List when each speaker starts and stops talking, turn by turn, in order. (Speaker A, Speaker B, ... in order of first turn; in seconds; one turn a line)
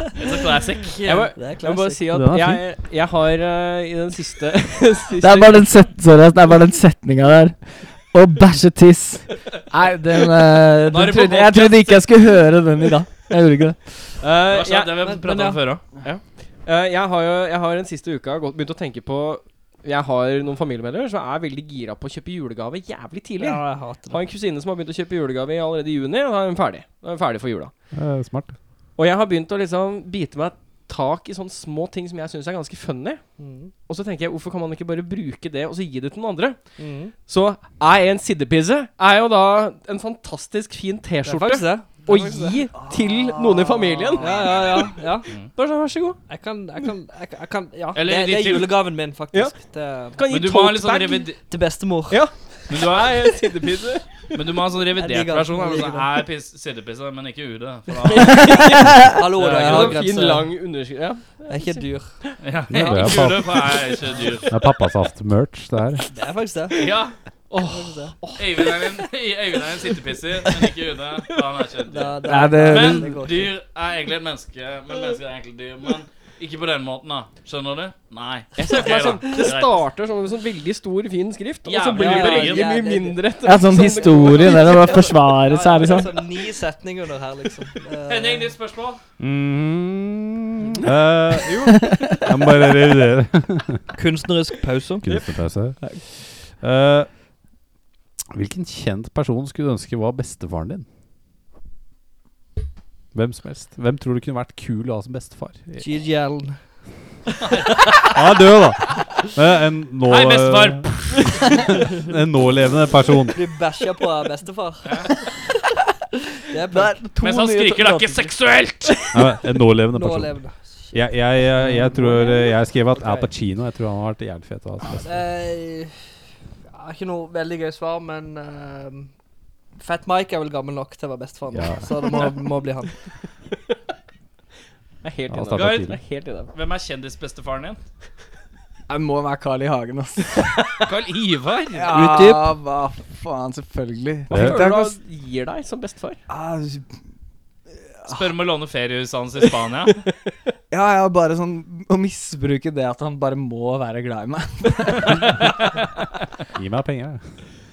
Speaker A: 0.2-1.3
Speaker B: 1.0-5.6
Speaker C: 1.3-2.2
Speaker D: 2.1-2.6
Speaker E: 5.2-14.1
Speaker A: 10.9-12.2
Speaker B: 14.2-15.1
Speaker A: 14.5-15.8
Speaker C: 15.0-15.7
Speaker B: 16.0-27.9
Speaker C: 23.4-24.2
Speaker D: 27.9-28.6
Speaker B: 28.9-46.2
Speaker C: 33.4-33.7
Speaker C: 36.8-37.1
Speaker C: 41.2-42.7
Speaker E: 42.8-44.1
Speaker C: 44.2-45.3
Speaker C: 46.3-50.2
Speaker A: 47.9-48.8
Speaker B: 49.3-51.4
Speaker A: 50.3-51.4
Speaker C: 51.4-52.4
Speaker B: 52.1-54.1
Speaker A: 52.7-53.1
Speaker A: 54.3-60.0
Speaker C: 55.0-56.1
Speaker B: 58.0-61.9
Speaker C: 58.4-60.5
Speaker C: 61.5-63.2
Speaker A: 62.4-64.5
Speaker D: 62.7-63.6
Speaker D: 64.5-66.0
Speaker C: 66.1-66.9
Speaker A: 66.8-67.1
Speaker B: 67.5-68.8
Speaker C: 67.7-68.2
Speaker A: 68.4-79.8
Speaker C: 71.9-73.5
Speaker E: 72.3-73.1
Speaker B: 78.5-85.2
Speaker A: 81.7-82.7
Speaker C: 81.9-84.7
Speaker E: 83.4-86.3
Speaker C: 85.5-88.5
Speaker A: 88.1-89.0
Speaker D: 89.2-93.8
Speaker C: 94.0-95.0
Speaker D: 95.0-97.1
Speaker D: 98.3-100.8
Speaker D: 103.1-105.8
Speaker C: 105.8-106.6
Speaker A: 107.5-108.0
Speaker D: 108.0-113.4
Speaker A: 110.1-110.9
Speaker C: 113.3-115.1
Speaker C: 116.5-117.0
Speaker E: 116.7-118.3
Speaker A: 117.2-119.1
Speaker D: 119.1-120.3
Speaker C: 119.9-121.4
Speaker D: 120.9-125.2
Speaker E: 121.8-122.2
Speaker C: 125.0-126.0
Speaker C: 126.7-129.1
Speaker C: 129.8-132.9
Speaker D: 131.5-131.9
Speaker B: 135.0-136.5
Speaker D: 135.3-136.0
Speaker A: 135.5-135.9
Speaker A: 136.5-137.8
Speaker E: 138.9-140.8
Speaker A: 140.8-141.9
Speaker E: 141.7-145.0
Speaker C: 141.9-142.5
Speaker B: 144.3-146.2
Speaker D: 144.3-144.7
Speaker E: 146.3-146.9
Speaker E: 147.9-148.3
Speaker A: 148.1-150.0
Speaker E: 150.7-155.4
Speaker A: 155.1-155.5
Speaker D: 156.6-157.2